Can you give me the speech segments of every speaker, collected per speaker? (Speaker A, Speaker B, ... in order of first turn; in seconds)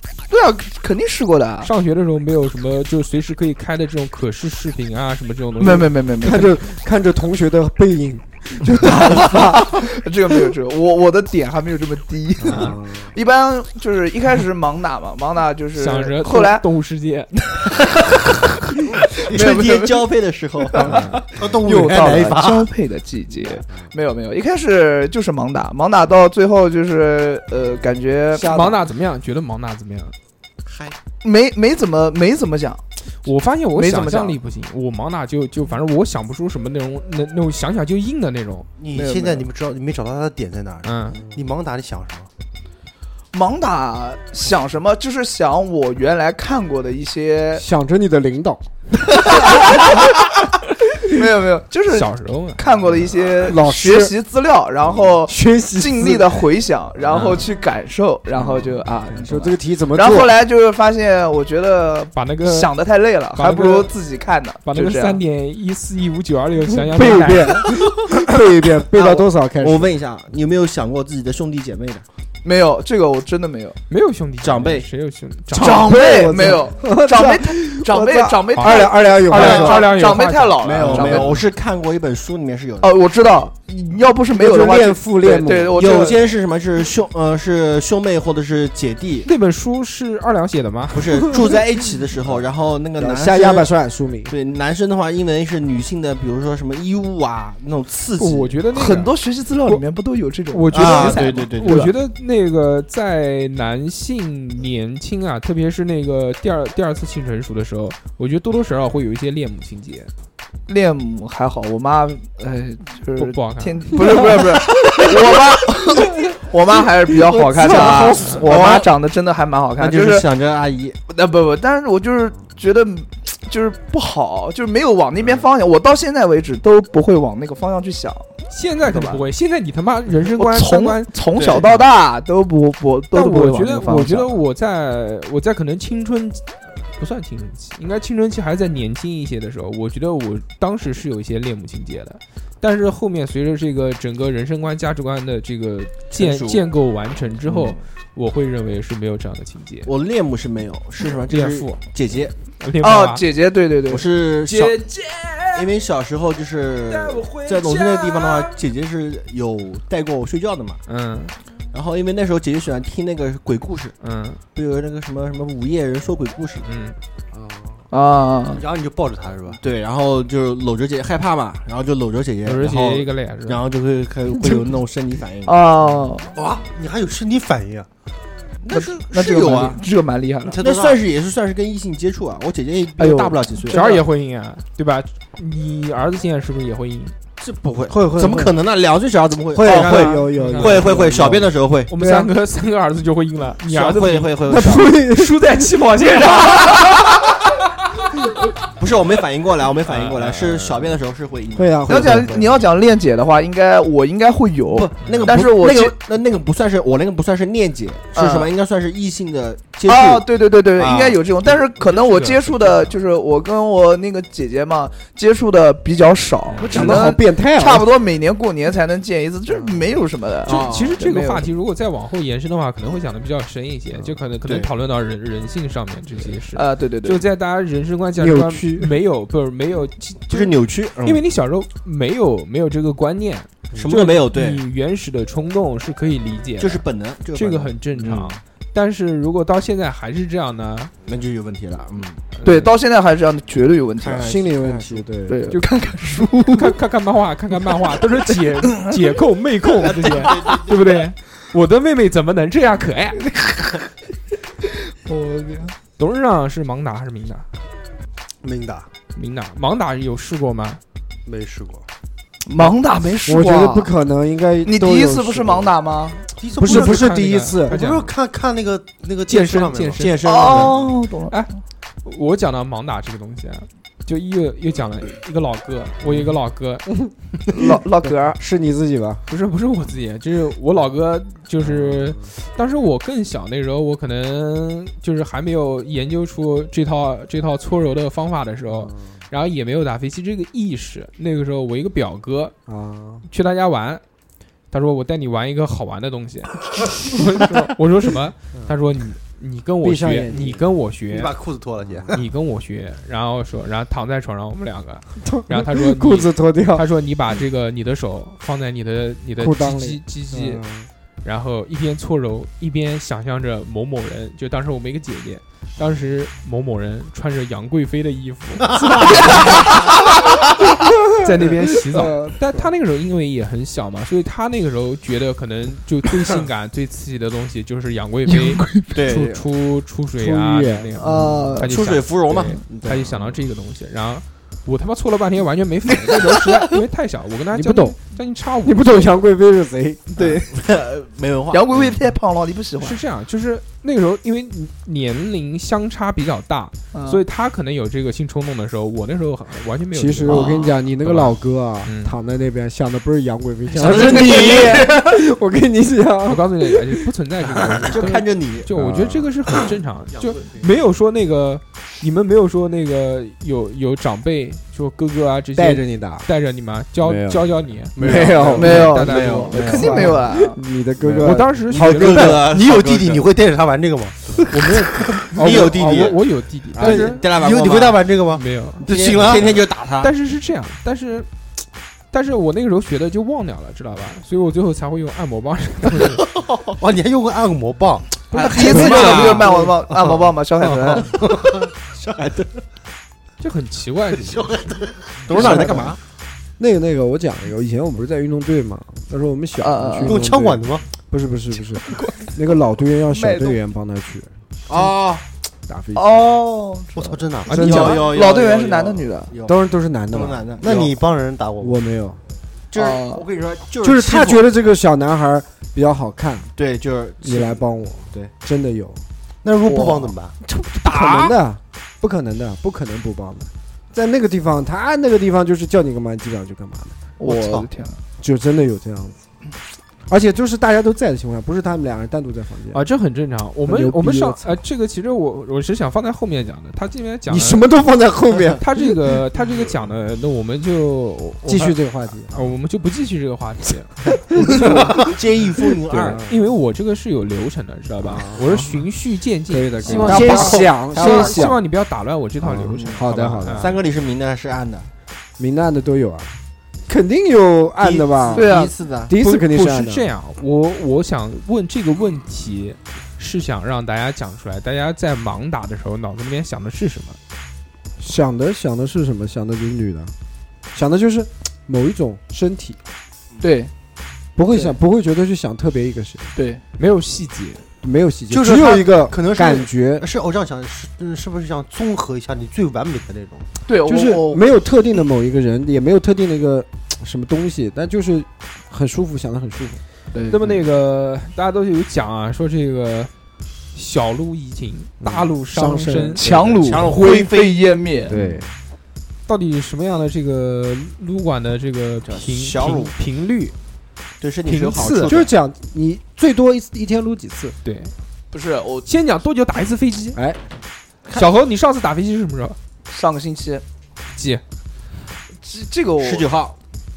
Speaker A: 0.3-1.7, 5.6-6.6, 8.8-16.6, 17.6-18.1, 19.2-20.1, 20.7-21.1, 21.6-28.7, 31.2-32.8, 33.7-34.4, 38.9-39.4, 43.3-47.6, 49.2-50.2, 51.0-65.2, 72.4-73.8, 75.5-81.4, 82.8-86.3, 98.7-101.9, 110.7-120.3, 121.1-128.3, 128.9-129.2, 130.2-134.3, 152.8-154.1, 167.9-168.6, 175.4-176.3, 178.7-180.6, 183.0-184.0, 201.9-205.9, 208.1-208.5, 209.9-221.5, 226.5-227.2, 242.4-244.3, 245.3-246.7, 255.0-255.8, 262.4-263.9, 264.6-266.2, 270.2-271.4, 277.5-278.4, 328.3-328.8, 331.0-331.7, 341.5-343.0, 346.9-347.2, 350.3-350.7, 353.9-354.9, 368.6-370.6, 388.3-391.2, 399.6-400.2, 401.9-402.3, 403.1-403.6, 405.9-409.3, 412.7-413.2, 419.7-420.1, 427.2-428.0, 458.3-458.7, 473.4-473.7, 474.5-474.8, 476.3-476.6, 483.7-484.4, 490.1-490.4, 496.2-498.1, 508.3-508.9, 512.9-513.6, 515.4-516.3
Speaker B: 1.6-5.9, 12.4-12.8, 15.8-17.5, 28.4-30.1, 33.2-38.7, 40.8-41.2, 51.9-53.1, 57.1-57.5, 62.1-62.7, 63.4-63.9, 64.6-67.7, 73.9-76.0, 78.6-81.4, 89.2-91.3, 98.2-99.1, 100.5-110.1, 113.2-114.2, 128.5-131.1, 133.1-149.9, 151.3-151.8, 152.6-153.2, 154.5-155.7, 156.9-158.6, 160.9-161.3, 164.0-164.4, 166.7-167.0, 172.4-173.6, 183.7-187.1, 189.6-191.0, 191.9-197.2, 199.9-201.0, 205.0-205.3, 211.8-212.9, 216.5-217.1, 220.5-236.8, 237.3-240.9, 242.3-242.7, 246.4-253.3, 256.0-257.5, 259.1-260.8, 266.6-268.1, 269.3-270.2, 272.0-276.9, 279.3-292.5, 293.2-294.0, 294.7-301.3, 302.1-310.6, 311.2-319.8, 321.2-339.1, 342.8-350.4, 351.0-352.1, 356.3-370.1, 371.2-372.4, 374.5-377.2, 378.3-381.3, 382.1-386.2, 388.3-389.4, 393.4-394.8, 407.5-408.1, 432.7-437.7, 438.6-443.9, 445.9-453.7, 459.2-467.2, 476.8-477.6, 490.3-493.1, 493.7-496.8, 499.3-503.5, 504.4-505.2, 507.6-507.9, 508.9-510.2, 511.1-512.6, 514.1-514.4
Speaker C: 6.2-9.9, 12.4-13.1, 21.6-22.2, 47.5-48.6, 53.4-54.1, 55.2-56.4, 59.1-60.3, 66.8-69.9, 75.6-80.0, 84.3-86.1, 93.0-94.3, 117.3-118.5, 187.9-188.6, 189.5-192.3, 194.5-195.7, 201.5-202.4, 216.6-217.9, 228.2-228.9, 244.2-245.6, 263.2-265.7, 266.6-267.8, 278.0-279.2, 281.6-282.2, 288.7-289.1, 292.7-293.2, 299.8-300.6, 301.8-302.1, 305.2-306.9, 309.4-310.9, 320.8-322.7, 330.2-331.5, 337.5-338.0, 338.6-340.4, 349.9-357.0, 357.6-358.1, 358.7-359.7, 365.5-366.3, 367.0-372.5, 388.6-389.7, 395.3-395.9, 396.6-404.3, 405.7-406.4, 407.5-408.1, 409.4-410.5, 411.6-412.2, 413.8-416.5, 417.2-419.0, 420.4-427.0, 428.2-429.2, 430.1-432.8, 433.6-434.6, 437.2-439.2, 441.4-442.5, 444.3-445.1, 445.7-446.3, 448.0-448.8, 449.5-451.6, 452.4-453.8, 455.4-456.3, 456.9-458.5, 459.0-460.1, 468.0-470.1, 470.7-472.8, 474.4-476.3, 477.8-480.1, 483.8-489.8, 495.0-496.8, 498.0-498.5, 505.1-507.5, 510.1-510.4
Speaker D: 19.2-22.7, 28.4-28.8, 68.9-72.0, 74.4-74.9, 79.3-79.8, 80.6-82.9, 85.7-89.3, 90.9-93.7, 94.3-98.5, 100.7-101.9, 117.6-118.9, 119.8-121.0, 131.3-131.6, 146.1-146.7, 147.4-147.8, 149.8-152.3, 153.9-154.8, 155.5-160.8, 161.7-163.9, 164.5-166.7, 169.6-175.7, 178.7-179.8, 180.6-184.0, 187.4-191.9, 193.6-194.9, 198.8-202.5, 204.7-211.2, 220.5-221.0, 224.4-224.7, 230.3-231.2, 233.7-234.6, 236.6-238.4, 241.0-242.2, 244.0-245.0, 249.8-251.0, 270.0-270.8, 328.9-329.4, 331.6-333.2, 340.2-342.0, 353.7-355.0, 357.9-358.7, 368.0-370.2, 371.1-373.3, 375.1-376.2, 376.8-378.0, 378.8-380.1, 388.3-389.6, 395.3-395.9, 404.7-405.2, 407.5-409.6, 410.1-410.9, 412.7-414.4, 416.6-418.3, 427.2-427.6, 444.2-446.4, 449.9-451.5, 452.8-453.0, 453.5-454.9, 457.8-459.1, 496.6-498.2, 502.0-502.9, 504.2-505.3, 516.0-516.5
Speaker E: 21.4-22.4, 30.7-30.9, 38.8-42.3, 168.5-169.6, 176.3-177.9, 180.4-181.0, 258.4-258.9, 261.2-261.8, 266.3-270.6, 301.1-302.2, 368.0-368.5, 372.1-374.4, 376.8-379.6, 386.5-389.4, 389.9-390.3, 390.8-392.5, 394.1-396.0, 400.1-400.8, 406.9-407.6, 410.6-411.8, 419.4-420.3, 478.3-483.5